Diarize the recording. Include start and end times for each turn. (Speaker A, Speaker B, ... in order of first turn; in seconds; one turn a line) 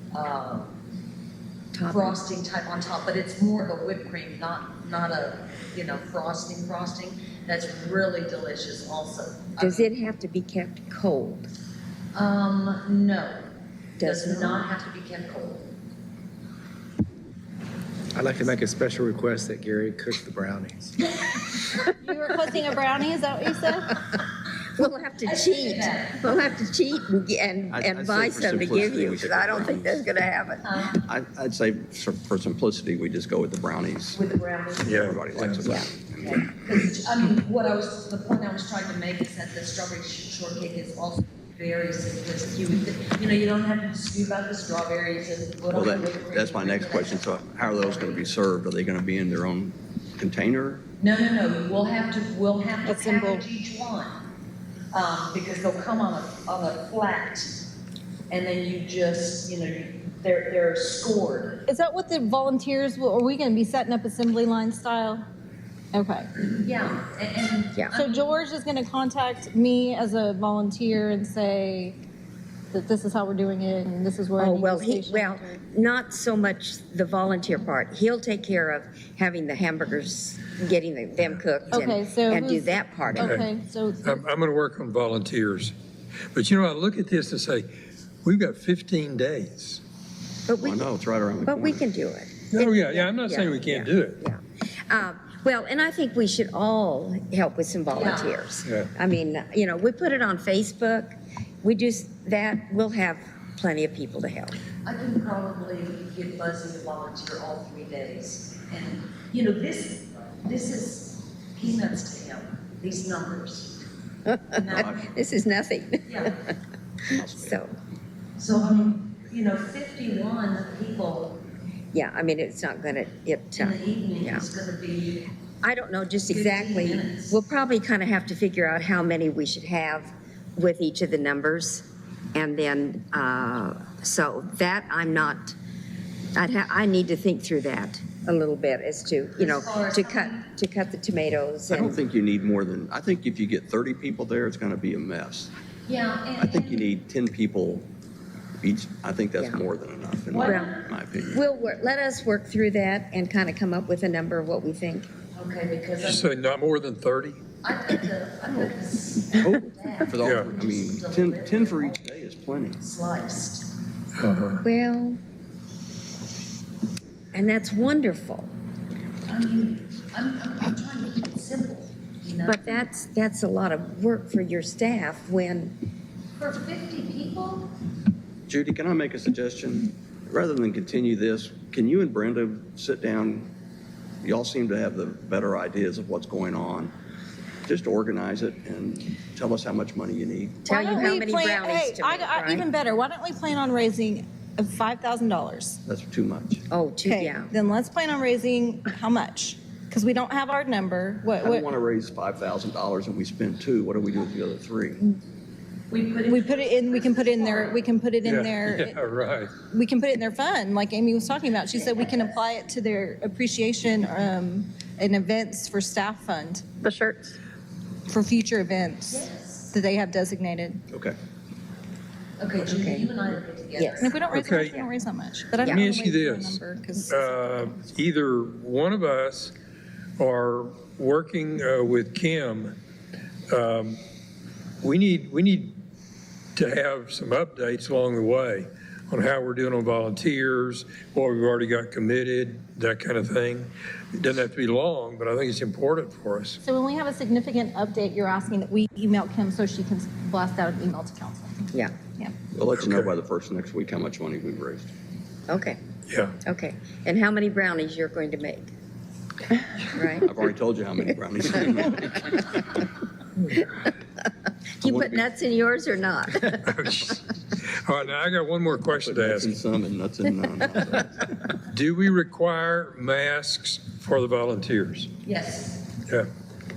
Speaker A: 0.1-0.7
Speaker B: 1.7-2.2
Speaker A: 1.9-9.9
Speaker B: 9.6-11.5
Speaker A: 12.1-13.5
Speaker B: 14.0-14.6
Speaker A: 14.0-15.7
Speaker C: 18.1-20.9
Speaker A: 21.2-21.7
Speaker D: 21.9-23.9
Speaker B: 24.8-30.6
Speaker A: 25.2-26.3
Speaker E: 27.7-30.0
Speaker A: 30.6-31.0
Speaker E: 31.0-34.2
Speaker A: 34.1-35.1
Speaker F: 34.8-35.6
Speaker E: 34.9-36.4
Speaker A: 36.2-48.2
Speaker E: 45.7-50.8
Speaker A: 51.0-54.2
Speaker D: 52.9-53.4
Speaker A: 54.9-57.6
Speaker A: 58.3-61.6
Speaker D: 61.7-65.2
Speaker D: 65.9-66.3
Speaker A: 66.4-68.3
Speaker D: 67.9-72.0
Speaker D: 72.7-75.5
Speaker B: 74.4-83.4
Speaker D: 81.7-84.2
Speaker F: 83.2-83.5
Speaker F: 84.0-85.7
Speaker F: 86.3-87.7
Speaker F: 88.2-89.8
Speaker B: 90.5-90.9
Speaker E: 90.6-91.8
Speaker B: 91.4-104.6
Speaker F: 92.5-94.2
Speaker A: 97.9-98.3
Speaker A: 104.8-113.8
Speaker B: 114.2-116.5
Speaker A: 114.5-115.1
Speaker A: 116.1-116.4
Speaker E: 117.1-117.6
Speaker B: 117.3-117.8
Speaker A: 118.4-121.4
Speaker B: 121.9-124.5
Speaker A: 123.6-125.3
Speaker B: 125.6-135.5
Speaker A: 126.3-127.4
Speaker B: 136.3-142.0
Speaker A: 139.4-140.4
Speaker E: 141.7-145.5
Speaker A: 145.9-146.8
Speaker E: 146.4-147.9
Speaker E: 148.6-151.4
Speaker A: 150.3-150.8
Speaker B: 150.4-150.7
Speaker B: 151.3-155.1
Speaker A: 155.3-156.3
Speaker F: 156.0-157.4
Speaker A: 157.6-162.0
Speaker E: 159.4-162.8
Speaker F: 160.2-160.5
Speaker A: 162.8-163.7
Speaker F: 164.2-164.6
Speaker B: 164.6-165.2
Speaker B: 167.3-168.5
Speaker A: 169.3-172.8
Speaker B: 172.4-175.8
Speaker A: 176.4-177.7
Speaker E: 178.5-183.5
Speaker E: 184.2-186.9
Speaker E: 187.7-190.7
Speaker B: 190.7-192.7
Speaker D: 190.7-195.8
Speaker E: 195.9-196.6
Speaker B: 196.7-197.5
Speaker D: 197.0-201.7
Speaker E: 201.4-205.0
Speaker A: 205.9-207.8
Speaker D: 206.2-209.0
Speaker F: 208.2-209.6
Speaker D: 209.6-216.7
Speaker B: 216.8-217.3
Speaker D: 218.1-220.8
Speaker A: 219.1-219.7
Speaker E: 220.9-221.2
Speaker A: 222.4-224.2
Speaker B: 222.6-223.1
Speaker B: 223.8-224.1
Speaker D: 224.0-227.8
Speaker F: 224.3-224.8
Speaker F: 225.6-229.5
Speaker F: 230.2-232.8
Speaker F: 233.5-234.0
Speaker F: 234.8-235.8
Speaker F: 236.6-246.6
Speaker D: 246.6-252.3
Speaker E: 252.5-254.9
Speaker F: 252.8-253.1
Speaker B: 255.5-255.8
Speaker F: 256.1-256.4
Speaker B: 256.4-258.7
Speaker B: 259.9-260.3
Speaker E: 260.2-262.4
Speaker B: 264.8-266.9
Speaker E: 264.8-265.2
Speaker F: 266.7-269.6
Speaker E: 269.0-271.2
Speaker F: 271.7-275.1
Speaker A: 275.2-275.9